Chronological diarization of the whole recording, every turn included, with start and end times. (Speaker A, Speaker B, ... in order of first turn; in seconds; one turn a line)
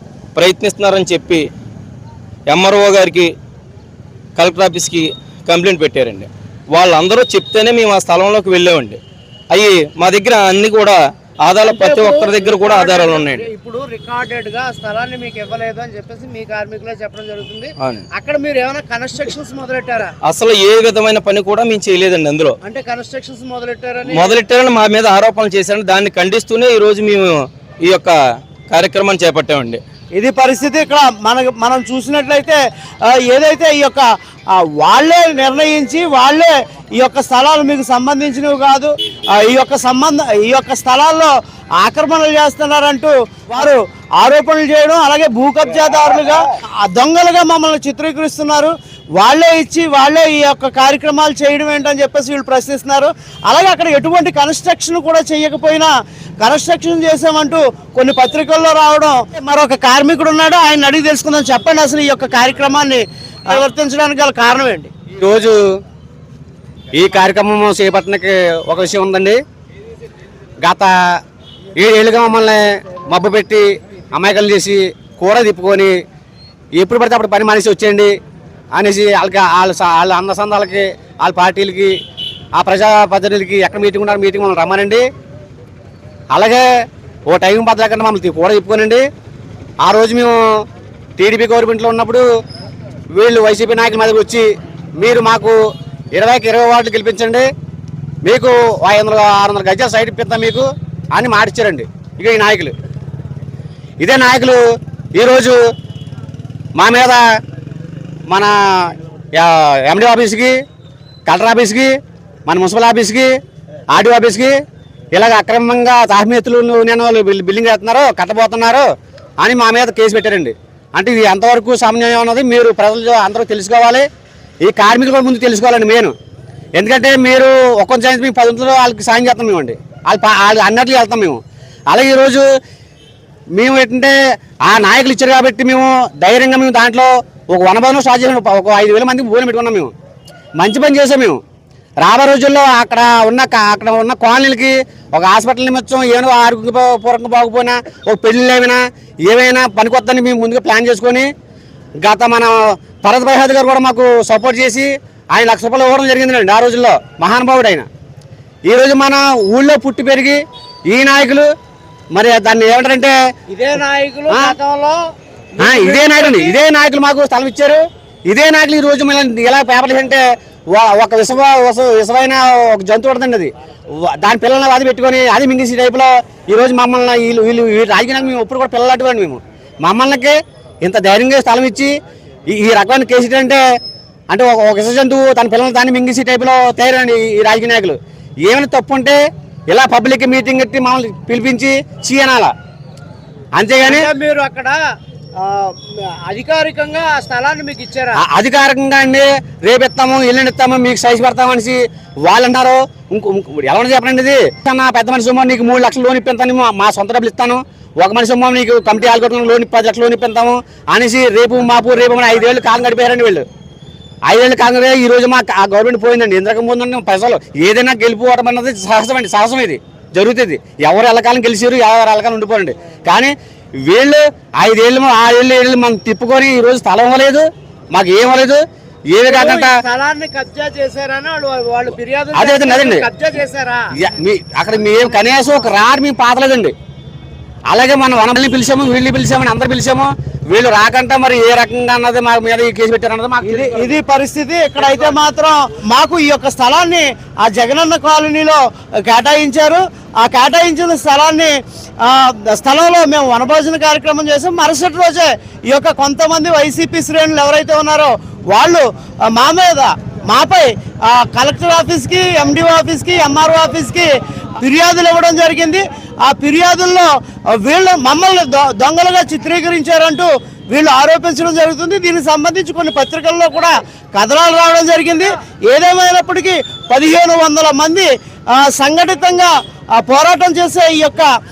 Speaker A: 0.3-1.4
Speaker A: 2.5-3.3
Speaker A: 4.4-9.0
Speaker A: 9.5-13.5
Speaker B: 11.6-20.1
Speaker A: 17.8-18.1
Speaker A: 20.2-22.5
Speaker B: 22.6-24.4
Speaker A: 24.1-28.1
Speaker A: 28.7-29.8
Speaker B: 30.1-64.9
Speaker C: 65.2-65.6
Speaker C: 66.9-69.4
Speaker C: 70.6-71.2
Speaker C: 71.8-75.9
Speaker C: 76.8-78.1
Speaker C: 78.7-82.0
Speaker C: 82.5-85.0
Speaker C: 86.3-86.7
Speaker C: 87.3-89.0
Speaker C: 89.8-90.6
Speaker C: 91.2-92.2
Speaker C: 93.1-94.5
Speaker C: 95.0-95.6
Speaker C: 96.1-97.5
Speaker C: 98.2-102.7
Speaker C: 104.0-104.6
Speaker C: 105.1-105.6
Speaker C: 106.8-107.2
Speaker C: 108.3-110.6
Speaker C: 111.3-113.3
Speaker C: 113.9-114.5
Speaker C: 115.1-118.9
Speaker C: 119.4-124.0
Speaker C: 124.6-126.1
Speaker C: 126.8-132.5
Speaker C: 133.5-139.9
Speaker C: 140.6-141.4
Speaker C: 142.0-151.3
Speaker C: 152.0-157.9
Speaker C: 158.7-161.5
Speaker C: 162.1-163.1
Speaker B: 163.5-165.0
Speaker C: 164.3-164.6
Speaker B: 165.5-166.6
Speaker C: 165.6-181.9
Speaker C: 182.5-183.6
Speaker C: 184.3-192.5
Speaker C: 193.6-194.1
Speaker B: 193.8-194.8
Speaker B: 195.4-198.2
Speaker C: 198.2-213.4
Speaker C: 214.3-229.7
Speaker B: 229.2-233.9
Speaker C: 232.3-233.1
Speaker C: 234.0-236.7
Speaker C: 237.7-243.9
Speaker B: 243.4-281.3